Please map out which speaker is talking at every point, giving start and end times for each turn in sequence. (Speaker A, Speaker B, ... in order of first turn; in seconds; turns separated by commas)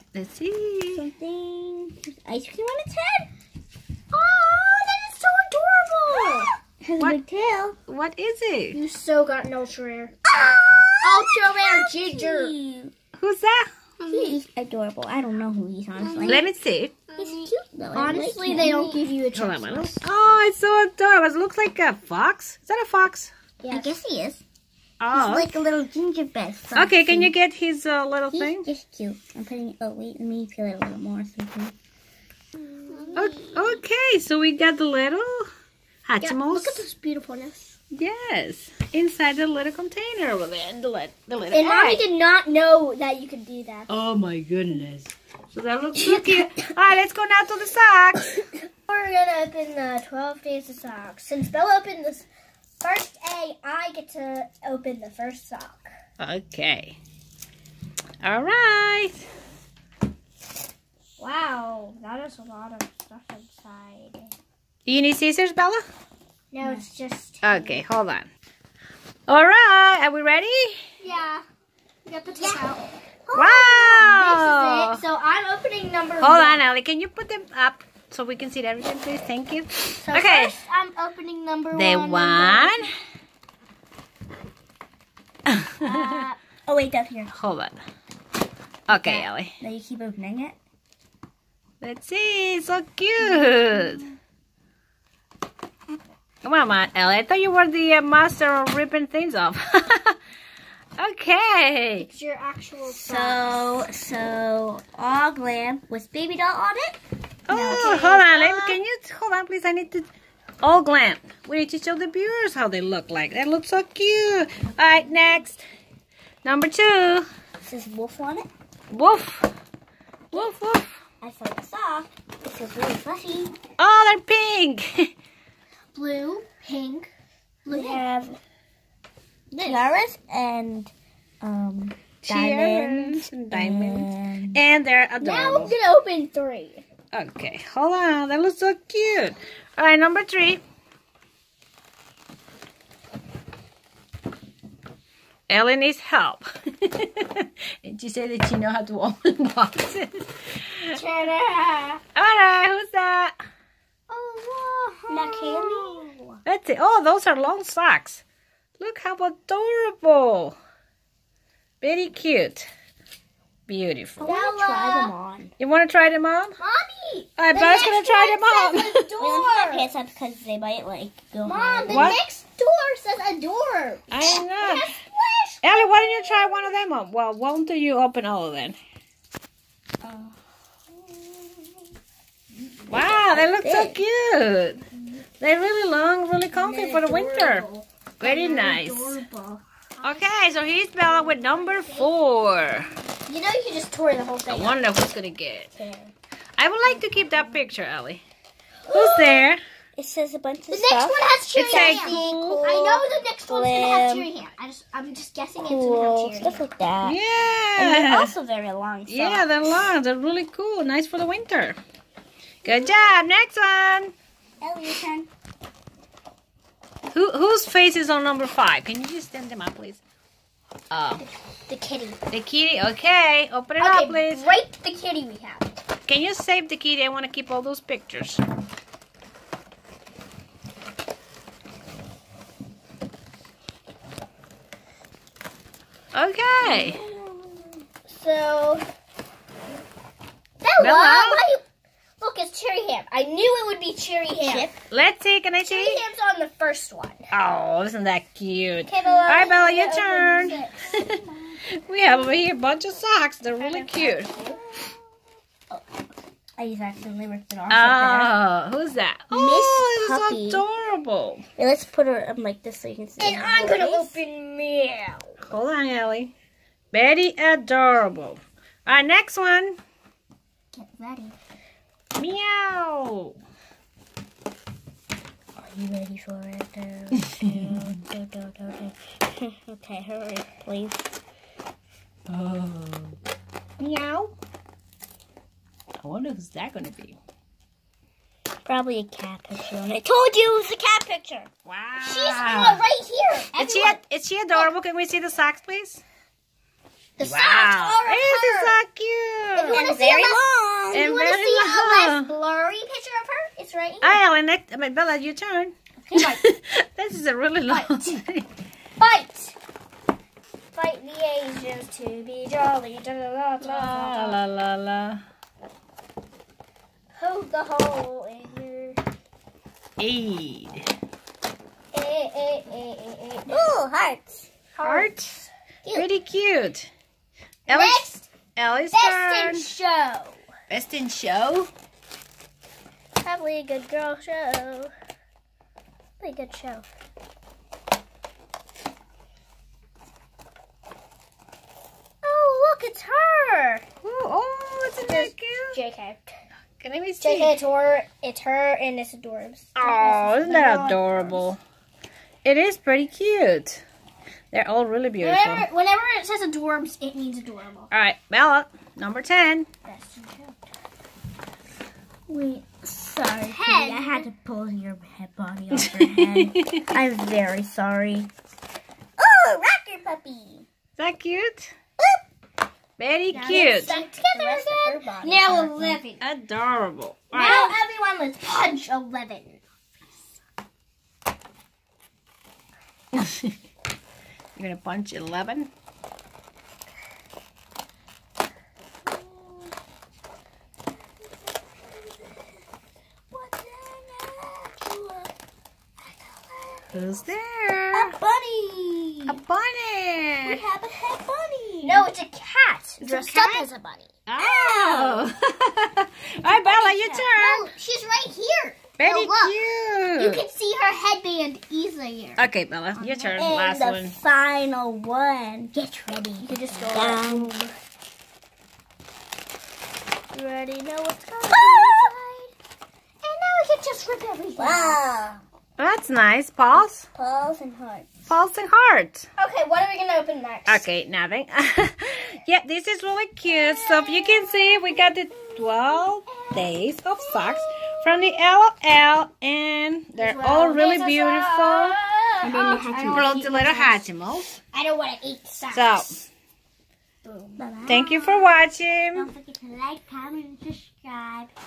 Speaker A: 0.1-1.1, Speaker B: 0.9-3.3, Speaker C: 4.1-6.5, Speaker B: 6.8-7.8, Speaker A: 7.9-8.8, Speaker C: 8.7-10.2, Speaker B: 10.3-12.9, Speaker C: 11.0-12.5, Speaker A: 13.2-13.7, Speaker C: 14.0-14.4, Speaker B: 14.1-16.5, Speaker C: 16.0-16.4, Speaker A: 16.3-16.9, Speaker C: 17.1-20.0, Speaker B: 17.2-19.0, Speaker A: 19.3-23.3, Speaker C: 23.6-24.0, Speaker B: 23.7-24.4, Speaker A: 25.0-25.6, Speaker B: 25.1-27.3, Speaker A: 26.8-28.7, Speaker B: 28.3-31.7, Speaker B: 32.9-33.6, Speaker C: 32.9-33.5, Speaker A: 33.1-35.5, Speaker A: 36.1-36.8, Speaker C: 36.2-37.8, Speaker A: 37.9-42.0, Speaker C: 41.5-43.9, Speaker A: 43.9-48.3, Speaker C: 48.9-52.3, Speaker C: 52.8-55.9, Speaker A: 56.2-57.0, Speaker A: 58.2-59.2, Speaker C: 61.2-64.3, Speaker A: 64.9-65.8, Speaker C: 66.5-67.8, Speaker A: 67.4-68.3, Speaker A: 69.3-70.8, Speaker C: 71.0-71.4, Speaker C: 72.1-72.8, Speaker B: 72.4-72.7, Speaker B: 73.3-74.1, Speaker A: 73.3-75.0, Speaker C: 73.9-76.6, Speaker A: 76.2-80.6, Speaker C: 80.0-82.9, Speaker A: 81.7-82.9, Speaker A: 85.5-86.0, Speaker C: 85.8-86.4, Speaker B: 86.7-87.3, Speaker A: 87.3-87.8, Speaker A: 88.9-89.6, Speaker B: 88.9-90.6, Speaker A: 91.8-94.0, Speaker A: 96.4-100.2, Speaker A: 101.0-102.1, Speaker C: 102.0-103.6, Speaker B: 102.9-107.0, Speaker A: 107.5-110.1, Speaker C: 107.5-108.8, Speaker B: 107.5-108.1, Speaker A: 110.6-115.6, Speaker A: 116.4-117.3, Speaker B: 117.6-118.5, Speaker A: 118.9-119.5, Speaker A: 120.3-121.0, Speaker B: 121.2-123.5, Speaker A: 123.8-125.1, Speaker C: 125.9-127.1, Speaker C: 127.7-128.0, Speaker B: 127.7-128.4, Speaker B: 129.5-134.6, Speaker C: 129.6-130.0, Speaker A: 132.2-135.8, Speaker C: 135.2-136.8, Speaker A: 137.1-140.6, Speaker A: 145.5-151.0, Speaker C: 150.9-152.0, Speaker A: 152.2-153.4, Speaker C: 154.1-156.3, Speaker B: 155.1-156.1, Speaker A: 156.4-158.2, Speaker A: 158.8-160.6, Speaker A: 161.8-162.7, Speaker A: 163.7-164.3, Speaker B: 164.2-165.5, Speaker C: 164.2-165.1, Speaker A: 165.6-166.6, Speaker C: 166.6-169.9, Speaker A: 167.4-169.1, Speaker B: 169.2-172.2, Speaker C: 171.4-176.7, Speaker A: 171.9-172.2, Speaker A: 174.1-174.9, Speaker A: 175.6-178.8, Speaker B: 180.0-180.3, Speaker A: 182.9-184.8, Speaker B: 183.2-184.0, Speaker A: 185.4-187.7, Speaker C: 186.7-192.1, Speaker A: 188.2-189.2, Speaker B: 188.3-188.7, Speaker A: 190.0-192.9, Speaker C: 193.3-194.8, Speaker A: 194.5-195.7, Speaker B: 195.7-196.1, Speaker A: 196.6-198.2, Speaker B: 197.0-197.5, Speaker C: 198.9-199.5, Speaker A: 198.9-199.6, Speaker B: 200.0-204.3, Speaker C: 200.7-206.6, Speaker A: 201.6-202.6, Speaker B: 205.6-207.2, Speaker A: 207.0-208.3, Speaker B: 207.8-209.5, Speaker A: 209.1-211.8, Speaker A: 212.6-214.1, Speaker B: 214.6-215.3, Speaker A: 217.1-220.0, Speaker A: 220.9-221.2, Speaker C: 221.2-222.2, Speaker A: 222.3-224.5, Speaker C: 223.8-225.8, Speaker A: 226.1-228.4, Speaker A: 236.1-237.0, Speaker C: 236.6-237.0, Speaker B: 237.0-237.5, Speaker C: 238.1-238.9, Speaker C: 240.6-241.6, Speaker A: 240.8-241.4, Speaker C: 242.2-244.7, Speaker B: 244.4-244.8, Speaker A: 244.9-246.0, Speaker C: 245.7-247.3, Speaker A: 247.3-251.2, Speaker C: 248.8-250.8, Speaker A: 251.7-254.3, Speaker C: 253.6-254.6, Speaker C: 256.6-258.4, Speaker A: 257.7-261.4, Speaker C: 259.3-260.6, Speaker B: 261.6-264.2, Speaker C: 263.2-265.4, Speaker A: 265.5-266.3, Speaker A: 266.9-269.8, Speaker C: 270.7-271.4, Speaker A: 272.2-273.4, Speaker B: 275.6-281.1, Speaker A: 277.4-277.7, Speaker A: 282.3-283.2, Speaker A: 283.8-284.3, Speaker A: 286.0-287.2, Speaker B: 288.7-291.5, Speaker A: 291.6-292.8, Speaker C: 292.0-294.0, Speaker A: 293.6-296.0, Speaker C: 297.2-298.8, Speaker A: 297.2-299.9, Speaker C: 299.5-300.4, Speaker B: 299.7-301.1, Speaker C: 300.9-304.2, Speaker A: 300.9-302.3, Speaker A: 304.0-308.5, Speaker C: 306.0-306.5, Speaker C: 307.7-308.2, Speaker C: 309.0-309.6, Speaker C: 310.7-314.4, Speaker A: 313.6-315.2, Speaker C: 317.2-319.0, Speaker A: 320.0-320.9, Speaker C: 321.9-323.7, Speaker B: 323.5-324.5, Speaker C: 324.8-325.3, Speaker A: 324.8-325.4, Speaker A: 325.9-326.9, Speaker C: 327.7-328.3, Speaker A: 327.7-329.7, Speaker C: 328.9-330.4, Speaker A: 330.7-331.7, Speaker C: 333.2-334.9, Speaker C: 336.2-336.9, Speaker C: 342.2-343.8, Speaker A: 344.0-345.8, Speaker C: 345.1-346.3, Speaker A: 346.8-347.6, Speaker C: 347.2-351.5, Speaker A: 349.8-351.6, Speaker A: 352.4-353.8, Speaker A: 354.5-355.7, Speaker C: 355.2-357.9, Speaker A: 357.9-359.7, Speaker C: 359.9-360.6, Speaker B: 362.3-368.3, Speaker C: 363.5-364.3, Speaker A: 365.8-366.9, Speaker B: 369.2-370.7, Speaker A: 371.0-371.7, Speaker A: 373.0-373.9, Speaker C: 373.3-376.2, Speaker B: 373.4-376.0, Speaker A: 376.2-377.6, Speaker C: 377.3-379.6, Speaker B: 377.4-377.8, Speaker A: 383.1-383.5, Speaker A: 384.6-385.7, Speaker B: 389.1-389.7, Speaker B: 391.6-392.5, Speaker B: 393.3-395.3, Speaker B: 396.0-397.2, Speaker A: 396.9-398.1, Speaker B: 397.9-399.4, Speaker A: 399.3-400.6, Speaker B: 400.4-402.1, Speaker C: 401.8-404.1, Speaker A: 403.0-403.7, Speaker A: 404.3-407.7, Speaker B: 404.4-405.3, Speaker B: 406.4-407.3, Speaker C: 406.7-409.6, Speaker A: 409.0-410.4, Speaker C: 410.2-413.5, Speaker A: 412.4-414.2, Speaker B: 413.4-417.5, Speaker C: 416.4-417.7, Speaker C: 420.3-422.5, Speaker B: 421.5-422.1, Speaker C: 423.2-425.0, Speaker B: 424.6-425.4, Speaker A: 425.8-427.1, Speaker B: 427.1-428.1, Speaker A: 428.3-429.3, Speaker C: 429.4-430.9, Speaker A: 430.7-442.0, Speaker C: 433.6-434.8, Speaker C: 436.3-438.0, Speaker C: 440.2-444.0, Speaker B: 442.4-443.9, Speaker A: 443.1-444.6, Speaker C: 444.7-446.2, Speaker A: 445.7-446.2, Speaker C: 447.2-447.6, Speaker B: 447.6-448.4, Speaker A: 447.9-449.3, Speaker B: 449.1-451.5